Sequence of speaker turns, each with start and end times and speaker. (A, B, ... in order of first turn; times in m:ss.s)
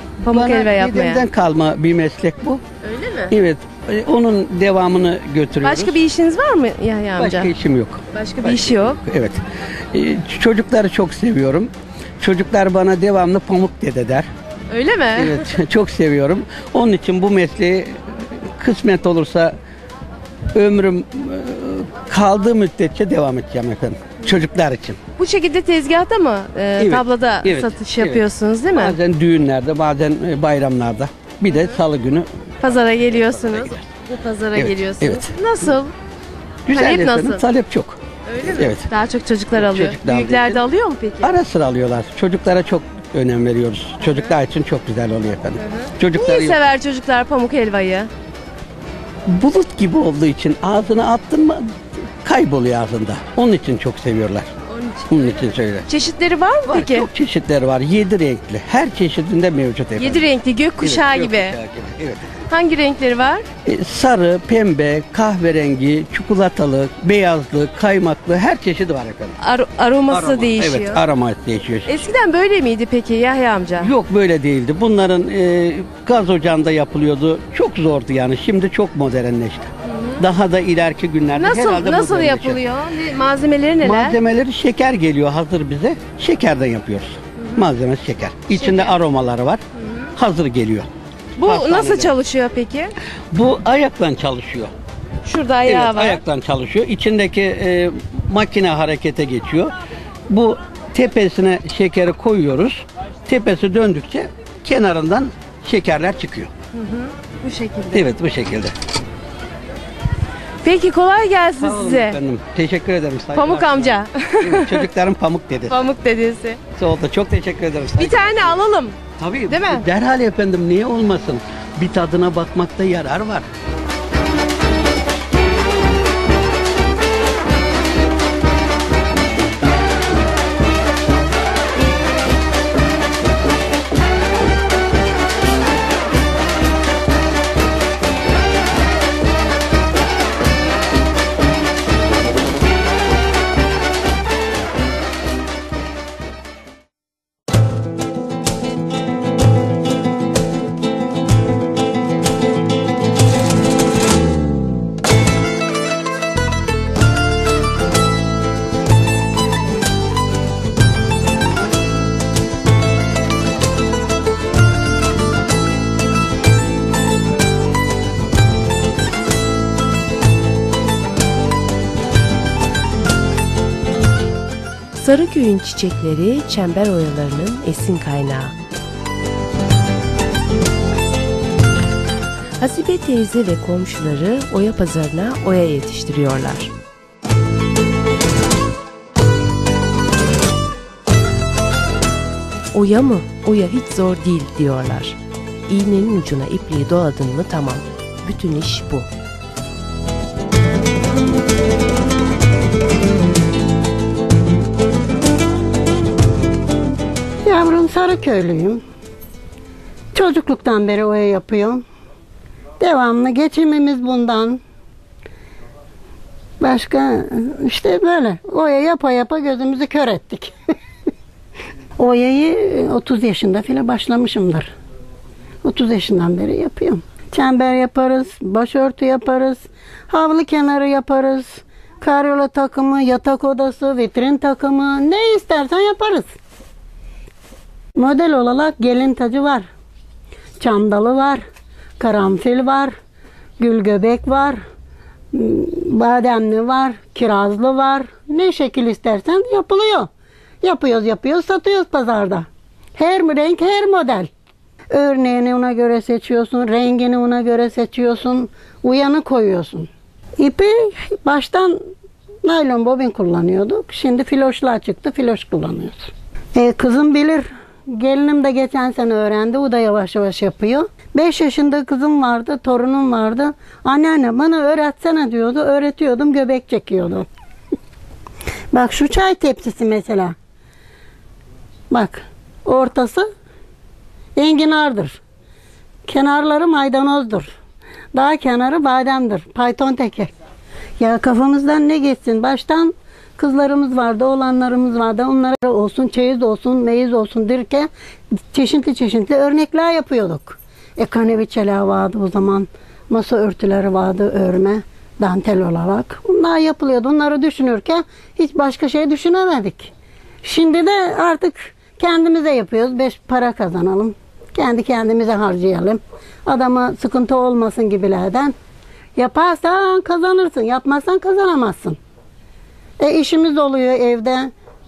0:00.2-0:01.2 A
0:00.3-0:02.6 B
0:03.2-0:06.0 B
0:05.8-0:07.4 A
0:07.1-0:14.3 B
0:08.1-0:08.9 A
0:14.7-0:15.2 A
0:15.1-0:19.6 B
0:20.5-0:25.0 B
0:25.2-0:28.9 A
0:26.8-0:33.9 B
0:32.6-0:33.5 A
0:34.1-0:35.9 A
0:34.5-0:35.4 B
0:36.7-0:38.9 B
0:36.9-0:37.3 A
0:38.9-0:41.3 A
0:39.5-0:40.7 B
0:41.2-0:46.7 B
0:45.9-0:46.4 C
0:46.5-0:48.1 A
0:49.3-0:54.5 B
0:55.1-0:55.9 B
0:55.9-0:56.9 A
0:56.6-1:02.3 B
1:00.0-1:01.3 A
1:02.5-1:03.4 A
1:03.6-1:09.4 B
1:09.4-1:10.8 A
1:10.1-1:12.1 B
1:12.0-1:13.8 A
1:13.7-1:22.6 B
1:21.4-1:21.8 C
1:21.8-1:23.9 A
1:23.8-1:29.6 B
1:30.1-1:32.2 B
1:31.6-1:32.9 A
1:33.3-1:34.7 B
1:35.2-1:35.5 A
1:35.6-1:39.7 B
1:35.7-1:36.2 C
1:40.3-1:46.5 B
1:47.4-1:47.7 A
1:47.9-1:48.7 B
1:50.6-1:52.0 A
1:51.6-1:55.9 B
1:53.3-1:54.8 C
1:55.9-1:56.6 A
1:56.8-1:58.6 B
1:58.0-1:58.6 C
1:58.1-1:58.9 A
1:59.2-2:03.5 B
1:59.5-1:59.8 C
2:54.9-2:58.5 C
3:02.6-3:06.7 C
3:12.7-3:19.1 C
3:27.4-3:28.8 D
3:30.1-3:31.8 D
3:32.8-3:34.6 D
3:36.6-3:40.5 D
3:42.0-3:44.7 D
3:45.6-3:56.3 D
3:58.0-3:59.7 D
4:00.6-4:01.4 D
4:02.0-4:02.9 D
4:03.6-4:04.6 D
4:05.3-4:10.1 D
4:10.6-4:14.3 D
4:14.9-4:21.9 D
4:22.4-4:37.3 D
4:38.7-4:40.3 D
4:41.9-4:43.3 D
4:44.4-4:45.2 D
4:46.0-4:47.5 D
4:48.1-4:50.3 D
4:51.0-4:57.9 D
4:58.5-5:09.9 D
5:10.4-5:18.5 D
5:19.2-5:22.0 D
5:23.0-5:24.5 D